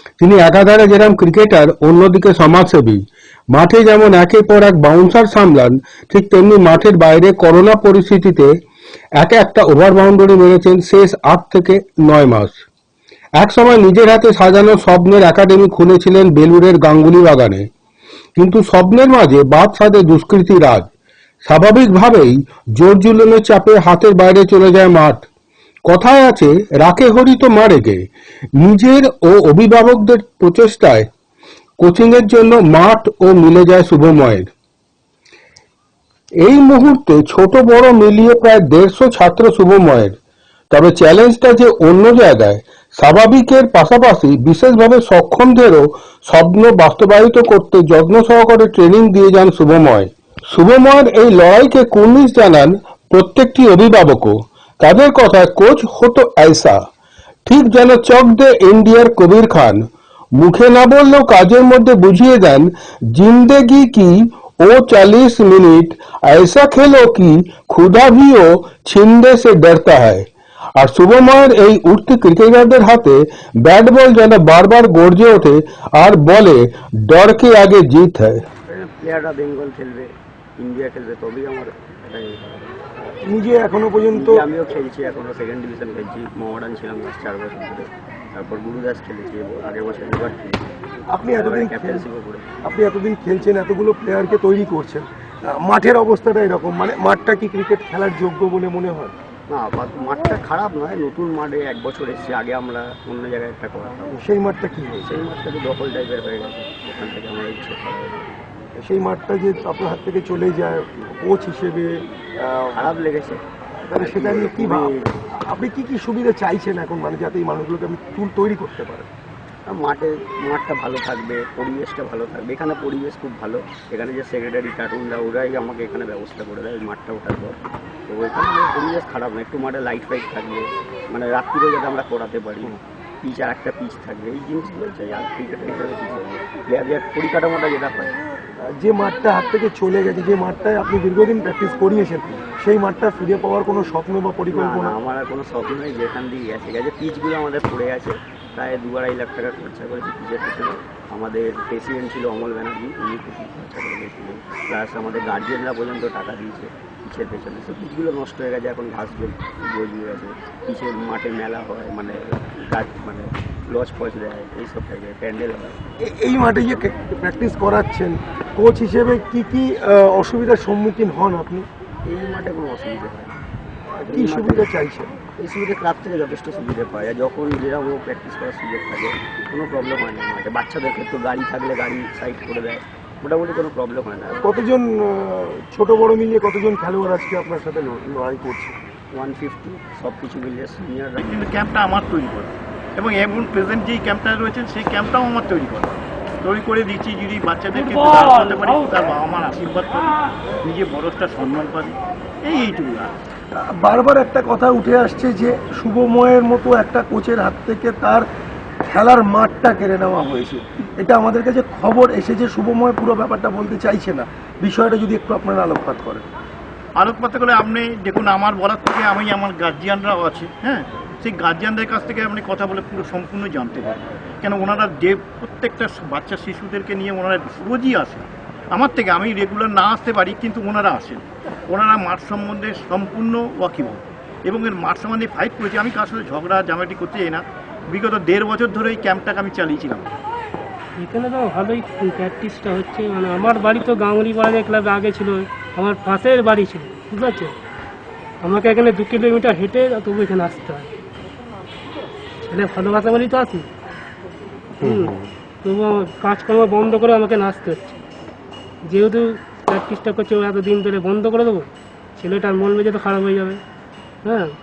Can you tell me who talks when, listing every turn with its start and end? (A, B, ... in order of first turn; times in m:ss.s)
0:00.2-0:08.5 A
0:09.2-0:12.6 A
0:13.4-0:17.7 A
0:18.4-0:20.9 A
0:21.4-0:25.3 A
0:25.9-0:28.0 A
0:28.6-0:31.1 A
0:31.8-0:34.5 A
0:36.4-0:40.1 A
0:40.7-0:56.8 A
0:57.4-0:59.8 A
1:00.4-1:10.3 A
1:10.8-1:18.4 A
1:18.7-1:22.6 B
1:23.2-1:24.4 C
1:24.1-1:30.6 B
1:31.1-1:32.0 C
1:31.4-1:32.5 B
1:32.6-1:39.1 C
1:39.5-1:44.2 B
1:44.1-1:45.2 C
1:45.0-1:48.3 B
1:48.8-1:52.8 C
1:52.7-1:53.4 B
1:53.8-1:55.0 C
1:54.0-1:55.1 B
1:55.5-1:59.1 C
1:59.7-2:18.2 B
2:18.8-2:25.0 C
2:24.5-2:45.8 B
2:46.0-2:51.6 C
2:52.1-2:53.4 B
2:54.0-2:55.1 C
2:54.0-2:54.6 B
2:55.4-3:04.4 B
3:04.4-3:08.8 C
3:09.1-3:11.4 B
3:11.2-3:23.1 D
3:23.5-3:28.2 C
3:28.8-3:36.2 C
3:37.0-4:00.1 D
4:01.0-4:07.5 E
4:08.4-4:10.9 E
4:12.5-4:13.6 E
4:14.8-4:18.0 E
4:14.8-4:15.2 A
4:18.8-4:21.6 E
4:22.2-4:23.6 E
4:24.2-4:24.5 E